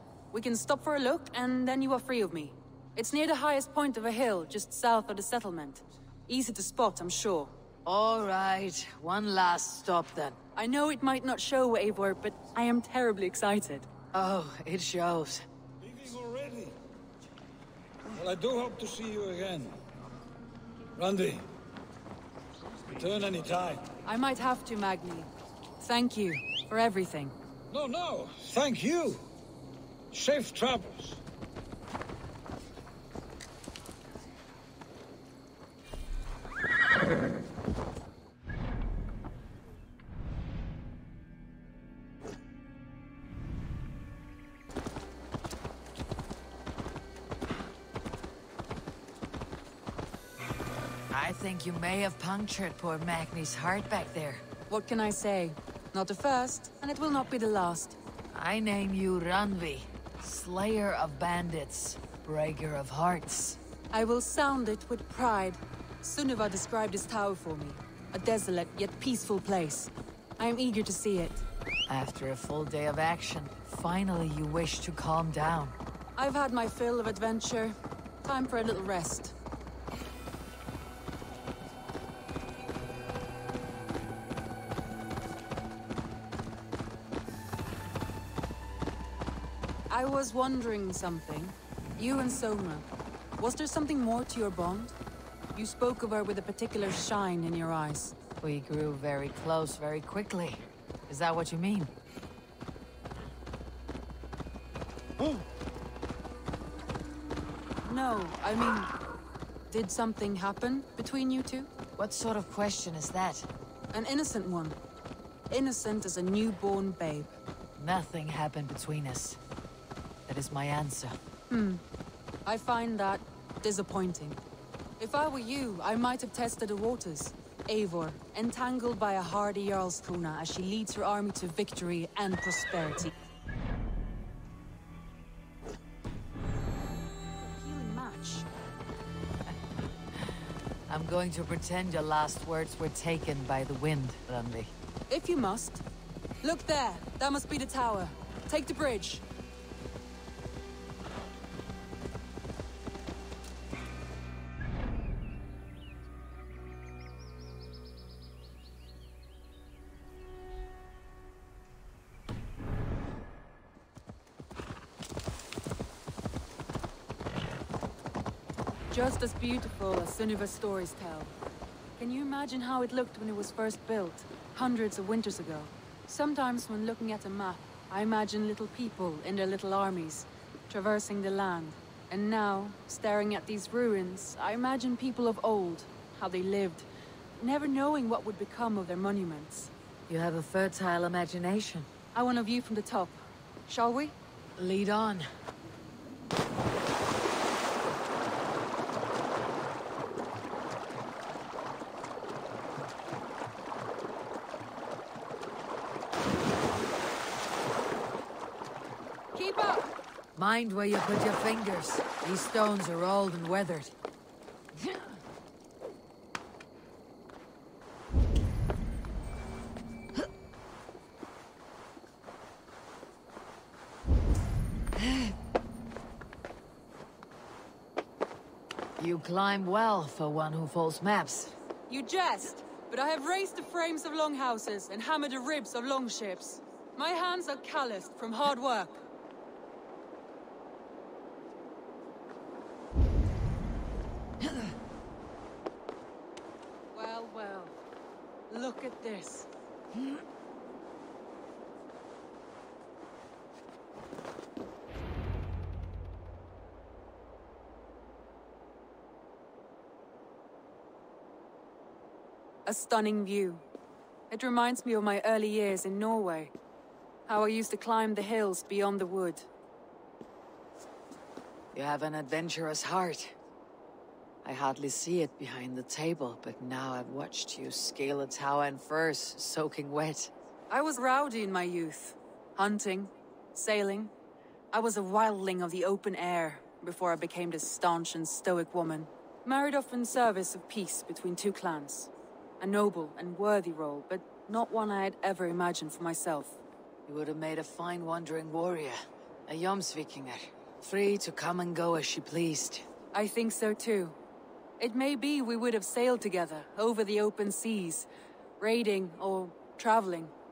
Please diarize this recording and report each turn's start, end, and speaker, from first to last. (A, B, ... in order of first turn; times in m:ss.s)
0:00.3-0:07.5 A
0:07.9-0:10.4 B
0:10.6-0:13.9 A
0:14.1-0:15.4 B
0:15.8-0:16.8 C
0:18.2-0:19.8 C
0:21.0-0:21.5 C
0:22.9-0:23.9 C
0:24.0-0:27.4 A
0:27.7-0:29.3 C
0:30.1-0:31.2 C
0:51.1-0:54.4 B
0:54.7-0:58.0 A
0:58.3-1:03.6 B
1:03.9-1:11.4 A
1:11.9-1:15.8 B
1:16.2-1:19.4 A
1:29.9-1:34.9 A
1:35.6-1:38.2 A
1:38.4-1:41.9 B
1:47.8-1:48.9 A
1:49.7-1:51.7 A
1:52.0-1:53.5 B
1:53.9-1:54.8 A
1:55.5-1:57.3 A
1:57.8-1:59.4 B
2:00.3-2:01.2 B
2:01.5-2:01.8 A
2:02.4-2:04.4 A
2:05.0-2:13.1 A
2:17.4-2:18.4 A
2:20.9-2:24.7 B
2:25.1-2:25.8 A
2:26.4-2:29.2 A
2:48.9-2:51.3 A
2:52.0-3:06.9 A
3:07.4-3:09.7 A
3:10.1-3:11.9 B
3:12.1-3:14.2 A
3:14.6-3:15.3 B
3:29.4-3:29.9 A
3:30.4-3:33.9 B
3:49.0-3:51.6 B
3:51.9-3:59.0 A
4:06.9-4:07.8 A
4:08.5-4:09.5 A
4:22.6-4:23.6 A
4:24.3-4:26.5 A
4:27.3-4:29.5 A
4:31.7-4:33.4 B
4:34.4-4:40.3 B
4:40.7-4:44.1 A
4:44.7-4:56.6 A
4:57.1-5:02.9 B
5:03.1-5:04.2 A
5:04.8-5:08.1 A
5:08.6-5:10.3 A